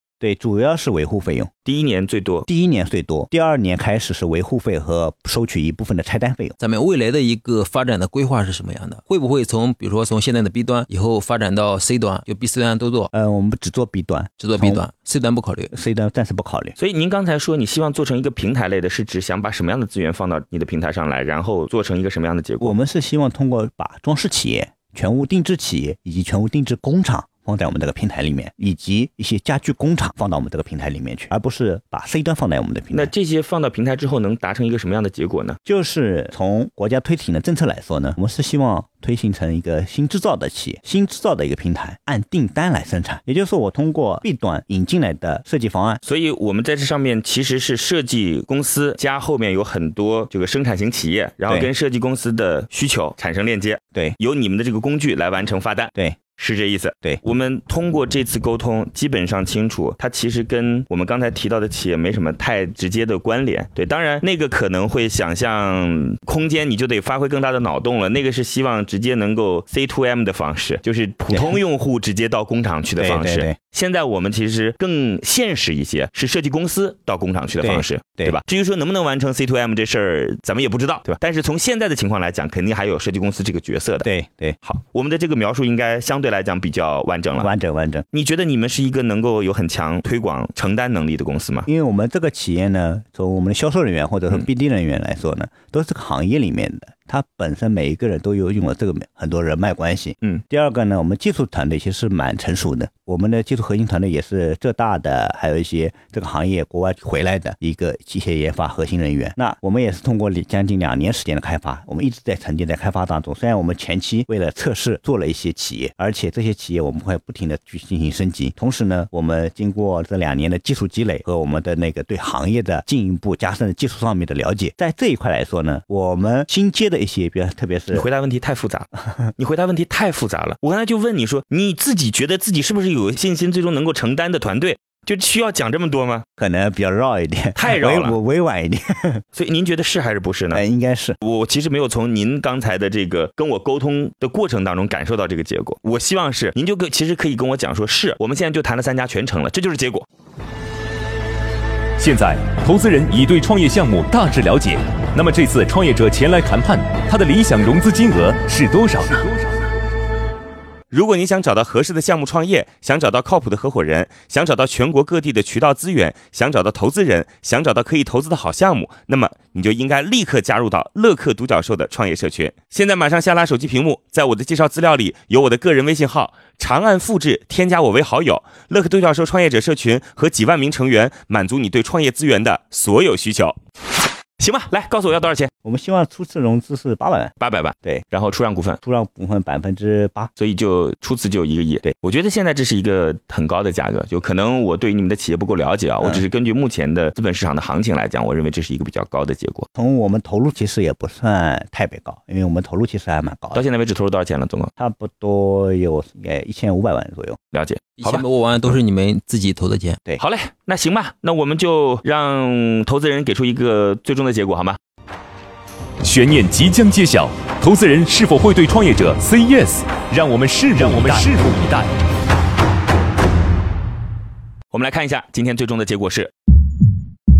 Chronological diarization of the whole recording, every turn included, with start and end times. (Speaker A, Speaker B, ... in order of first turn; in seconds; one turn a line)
Speaker A: 0.2-1.5
Speaker B: 1.6-2.5
Speaker A: 2.5-6.6
Speaker C: 6.6-13.1
Speaker A: 13.1-14.8
Speaker C: 14.4-15.7
Speaker A: 15.7-16.8
Speaker B: 16.8-22.8
Speaker A: 22.6-33.1
Speaker B: 32.9-35.6
Speaker A: 35.6-46.0
Speaker B: 46.0-84.1
Speaker A: 71.3-71.6
Speaker A: 73.0-73.6
Speaker A: 77.6-78.4
Speaker A: 84.0-84.6
Speaker B: 84.7-87.5
Speaker A: 87.4-88.0
Speaker B: 88.1-91.7
Speaker A: 91.7-128.1
Speaker B: 127.9-136.2
Speaker A: 136.4-139.2
Speaker B: 137.6-138.2
Speaker B: 139.3-140.6
Speaker A: 140.5-141.2
Speaker B: 141.2-150.1
Speaker D: 152.0-159.3
Speaker E: 160.9-183.6
Speaker B: 184.4-185.5
Speaker A: 185.6-187.3
Speaker B: 187.4-188.8
Speaker A: 188.8-190.3
Speaker B: 190.4-199.7
Speaker A: 199.8-203.6
Speaker B: 203.5-204.7
Speaker A: 204.8-207.4
Speaker B: 207.5-208.7
Speaker C: 208.0-210.0
Speaker B: 210.2-214.8
Speaker D: 216.0-221.9
Speaker B: 220.8-221.3
Speaker B: 224.7-226.3